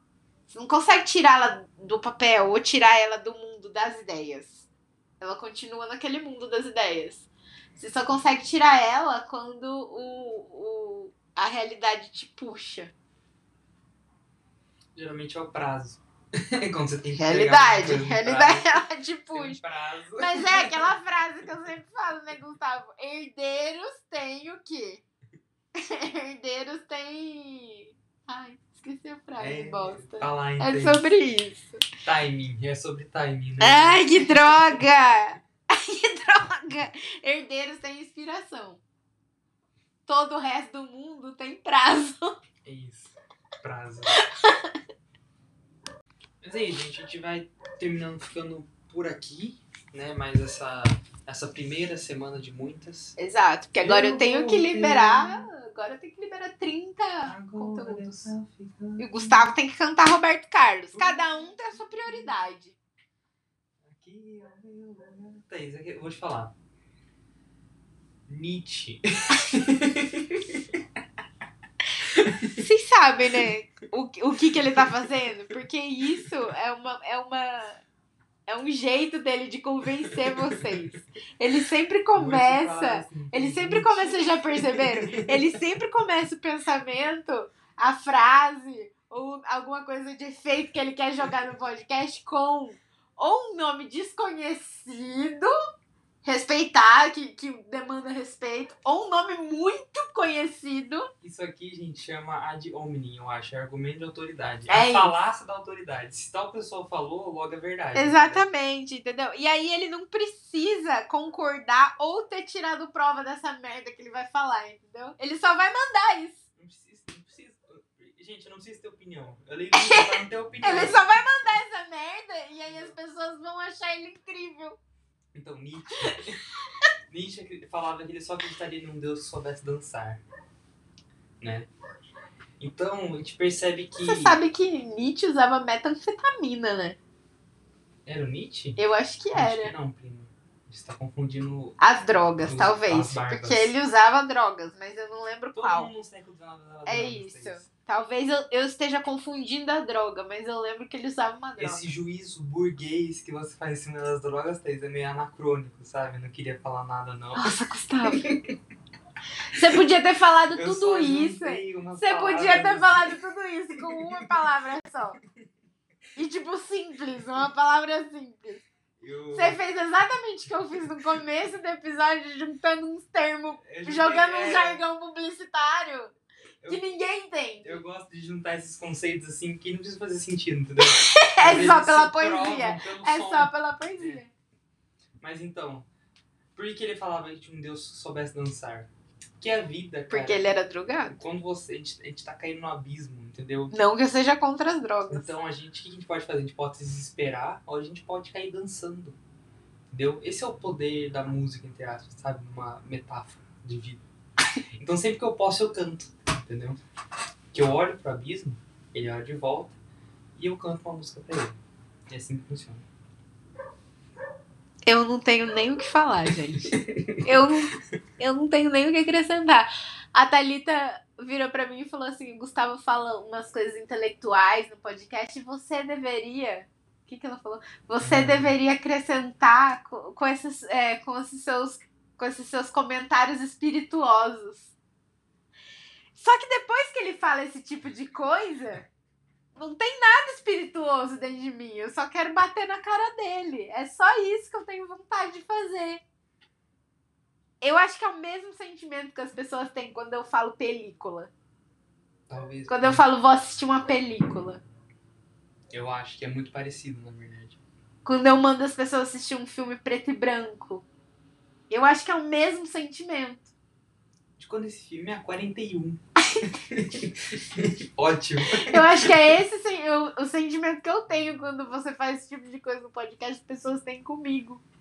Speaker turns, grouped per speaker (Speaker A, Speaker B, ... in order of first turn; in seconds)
Speaker A: 0.5-4.7, 5.2-12.9, 17.1-19.6, 20.2-25.0, 25.8-31.8, 33.6-38.8, 40.1-42.4, 44.1-44.8, 53.2-58.3, 59.0-62.8, 72.6-77.8, 78.5-95.5, 96.2-101.1, 104.7-105.1, 107.9-116.4, 119.7-124.8, 134.0-137.0, 138.8-139.7, 141.8-145.9, 146.8-151.9, 157.3-158.3, 159.5-165.2, 166.2-168.6, 169.3-176.1, 176.7-177.8, 180.9-184.3, 190.1-191.2, 193.7-195.3, 214.8-234.7, 236.1-238.9, 239.6-246.0, 247.6-251.3, 252.7-254.6, 258.0-260.8, 261.7-263.5, 268.5-274.6
Speaker B: 14.9-18.7, 19.3-20.9, 29.4-31.0, 32.0-34.9, 42.6-44.2, 46.4-53.1, 53.8-55.5, 57.2-59.5, 60.9-62.4, 63.8-66.5, 68.3-70.6, 72.0-72.6, 80.3-81.0, 82.1-85.5, 101.2-108.4, 116.6-121.5, 122.7-122.9, 125.3-126.4, 127.1-130.2, 131.4-131.7, 132.6-134.4, 138.1-138.8, 139.3-141.8, 142.4-143.7, 145.5-147.7, 151.6-157.5, 158.1-158.4, 160.5-163.2, 163.8-164.3, 169.0-169.6, 173.6-174.8, 177.6-184.2, 185.2-185.8, 186.5-188.9, 189.4-190.4, 191.1-193.7, 195.1-199.2, 199.9-204.0, 204.8-206.8, 207.5-209.8, 210.3-211.6, 212.1-212.8, 216.5-217.5, 228.0-228.5, 252.3-253.1, 255.7-257.6, 264.4-269.3